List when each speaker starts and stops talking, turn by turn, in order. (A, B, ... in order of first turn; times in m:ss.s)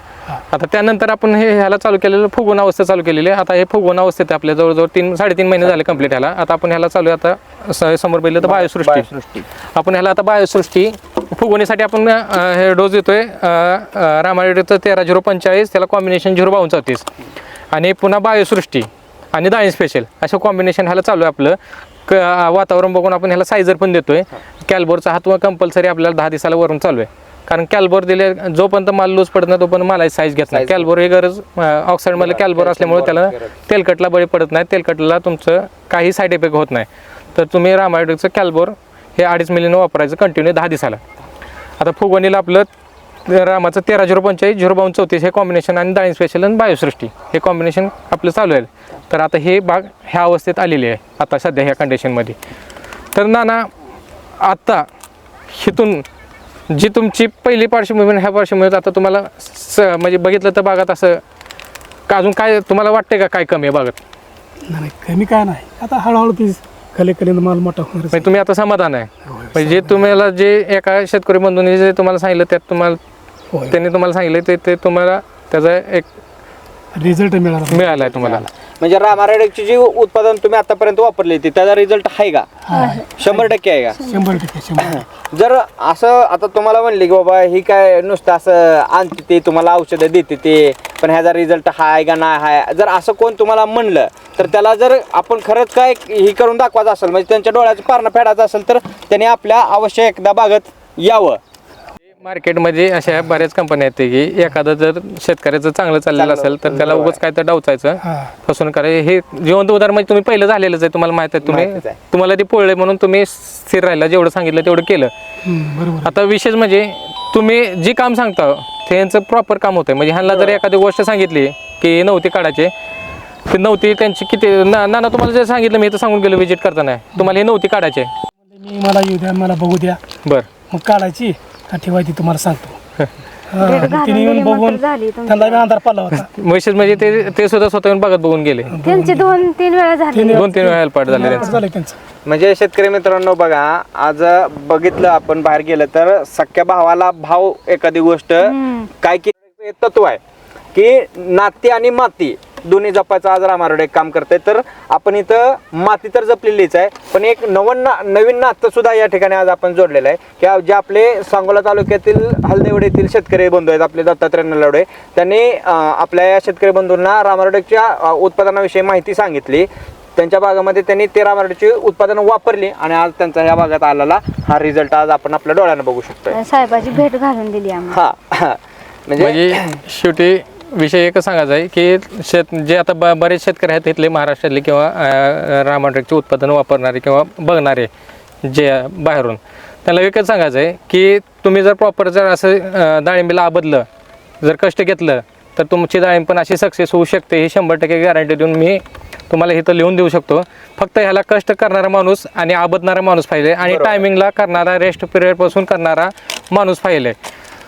0:00.5-0:09.1 A
0:08.4-0:09.5 B
0:09.7-0:17.1 A
0:17.7-0:41.0 A
0:30.5-0:30.9 B
0:32.1-0:33.5 B
0:41.8-0:42.7 A
0:43.2-0:52.4 A
0:53.1-0:53.7 A
0:54.4-0:54.8 A
0:55.5-0:56.0 A
0:56.7-1:01.2 A
1:02.1-1:04.0 A
1:04.6-1:08.3 C
1:08.1-1:13.0 A
1:09.2-1:10.2 C
1:13.5-1:13.8 C
1:13.7-1:16.1 A
1:16.9-1:18.1 C
1:17.7-1:18.4 A
1:18.0-1:22.5 B
1:22.6-1:23.5 C
1:22.7-1:23.0 D
1:23.2-1:24.0 B
1:24.0-1:25.0 C
1:24.8-1:41.4 B
1:42.2-1:55.1 A
1:46.1-1:47.2 B
1:48.0-1:48.3 C
1:51.4-1:52.0 B
1:55.4-1:56.1 C
1:56.0-2:02.7 A
2:00.3-2:00.6 B
2:03.5-2:08.1 A
2:08.5-2:10.0 C
2:10.7-2:12.8 C
2:13.5-2:16.3 C
2:13.6-2:15.6 D
2:16.1-2:18.8 A
2:18.7-2:19.4 C
2:18.8-2:20.6 D
2:20.1-2:22.0 C
2:20.3-2:21.6 A
2:21.1-2:21.6 D
2:22.2-2:30.2 B
2:28.4-2:28.9 D
2:30.7-2:56.4 B
2:56.3-2:58.0 D
2:57.9-2:59.8 B
2:59.2-3:07.9 A
3:08.4-3:13.9 A
3:14.4-3:27.2 A
3:23.6-3:24.0 B